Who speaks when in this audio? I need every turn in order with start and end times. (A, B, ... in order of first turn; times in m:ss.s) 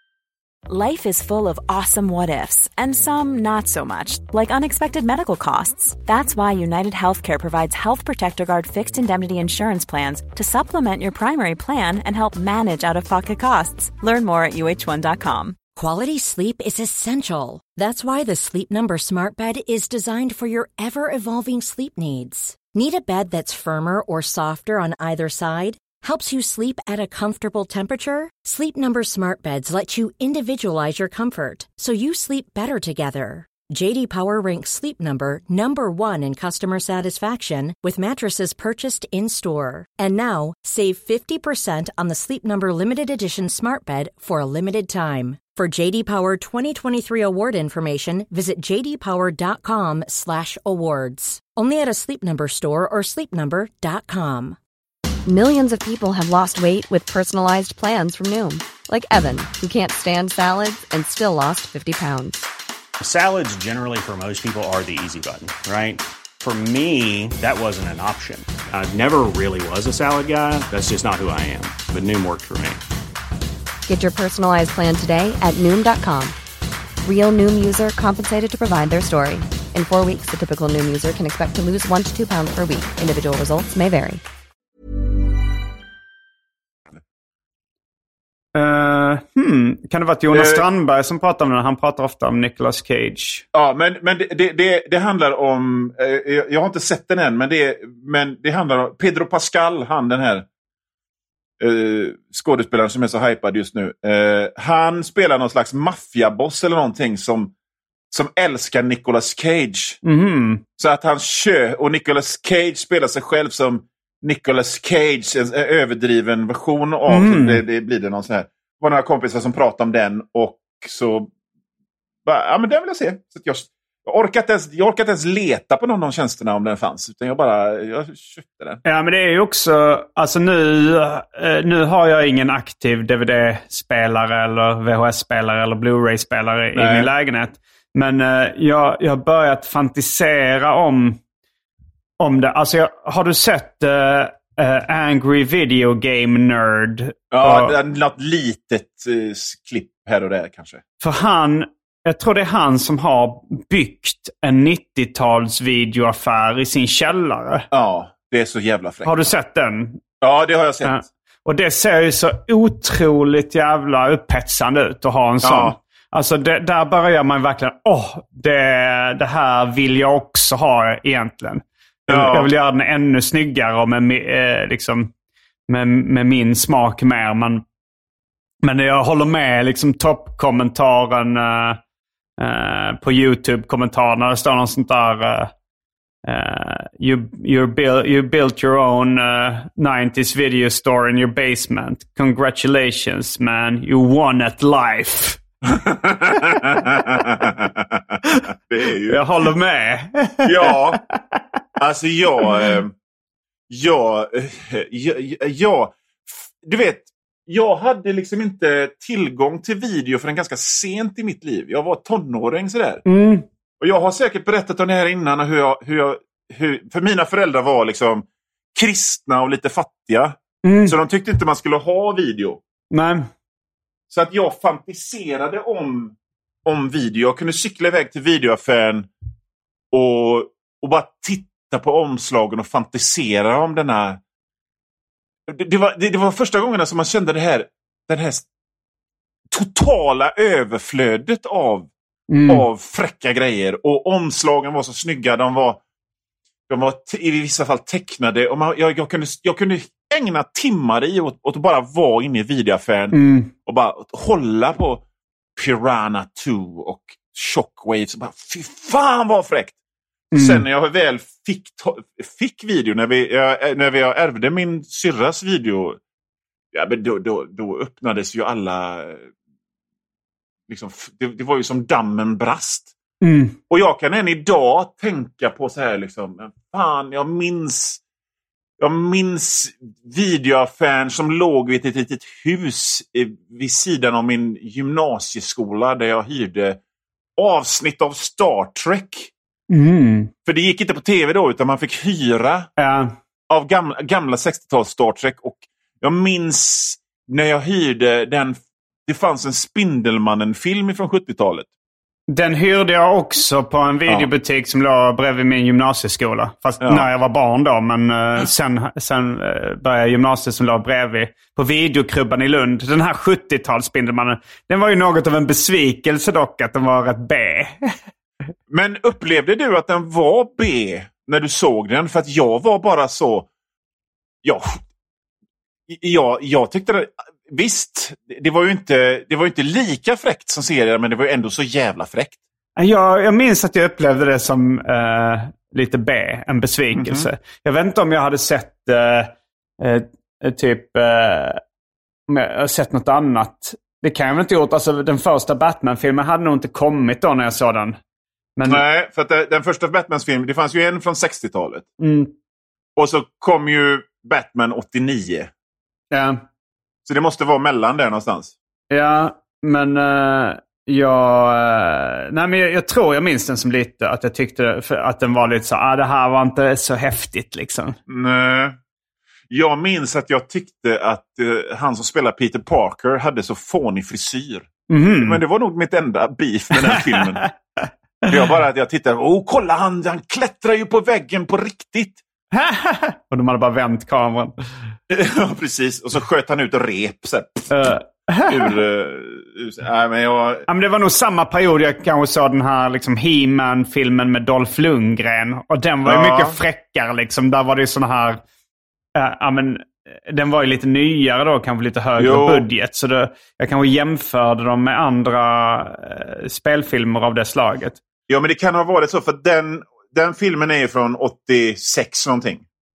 0:00.7-0:15.6 A
0:15.8-0:54.6 B
0:55.3-1:02.4 C
1:03.0-1:12.8 D
1:13.9-1:16.4 C
1:17.0-1:24.2 C
1:28.6-1:33.4 E
1:30.3-1:30.6 F
1:33.5-1:40.5 F
1:41.6-1:47.5 F
1:48.1-1:50.0 F
1:50.0-1:50.6 E
1:50.8-2:01.3 F
1:57.1-1:57.6 E
2:02.2-2:08.8 F
2:08.8-2:21.2 E
2:16.8-2:17.1 F
2:22.2-2:27.8 E
2:27.3-2:30.8 F
2:31.0-2:37.7 E
2:37.7-2:39.3 F
2:39.0-2:40.0 E
2:40.2-2:41.0 F
2:40.8-2:55.1 E
2:45.4-2:45.8 F
2:52.1-2:52.5 F
2:55.7-2:57.6 E
2:58.6-3:01.8 E
3:02.4-3:05.5 E
3:06.2-3:15.4 E
3:15.7-3:19.2 F
3:19.1-3:20.7 E
3:20.4-3:21.0 F
3:21.8-3:22.9 F
3:23.7-3:33.0 F
3:33.1-3:33.4 E
3:33.8-3:42.6 F
3:40.6-3:40.9 E
3:42.9-3:43.3 E
3:44.1-3:46.2 F
3:46.7-3:49.1 F
3:49.9-3:54.2 F
3:55.5-3:58.5 F
3:59.5-4:01.9 F
4:02.3-4:02.6 E
4:02.5-4:05.8 F
4:06.7-4:15.0 F
4:13.1-4:13.5 E
4:15.6-4:19.8 F
4:20.3-4:20.6 E
4:20.4-4:26.0 F
4:26.7-4:29.3 F
4:30.7-4:32.9 F
4:33.2-4:33.6 E
4:33.7-4:38.0 F
4:38.8-4:46.8 F
4:47.4-4:49.3 F
4:49.7-4:50.3 E
4:50.5-4:52.7 F
4:52.8-4:53.1 E
4:53.5-5:01.7 F
5:02.3-5:17.9 E
5:06.8-5:07.1 F
5:18.7-5:23.5 F
5:24.4-5:24.8 F
5:25.9-5:32.4 F
5:32.8-5:41.6 E
5:36.9-5:37.3 F
5:42.3-5:48.0 E
5:48.6-5:48.8 E
5:48.7-5:51.9 F
5:52.0-5:52.3 E
5:53.0-5:55.5 F
5:56.1-5:56.4 E
5:57.1-5:58.5 F
5:58.9-6:08.0 E
6:08.1-6:08.8 F
6:09.5-6:14.7 F
6:14.9-6:15.4 E
6:15.2-6:17.4 F
6:16.8-6:17.9 E
6:18.3-6:22.2 F
6:22.5-6:24.5 E
6:25.1-6:27.7 F
6:27.7-6:28.7 E
6:28.5-6:30.7 F
6:30.7-6:38.4 E
6:36.1-6:36.6 F
6:39.2-6:48.0 E
6:42.2-6:42.7 F
6:48.3-6:52.6 F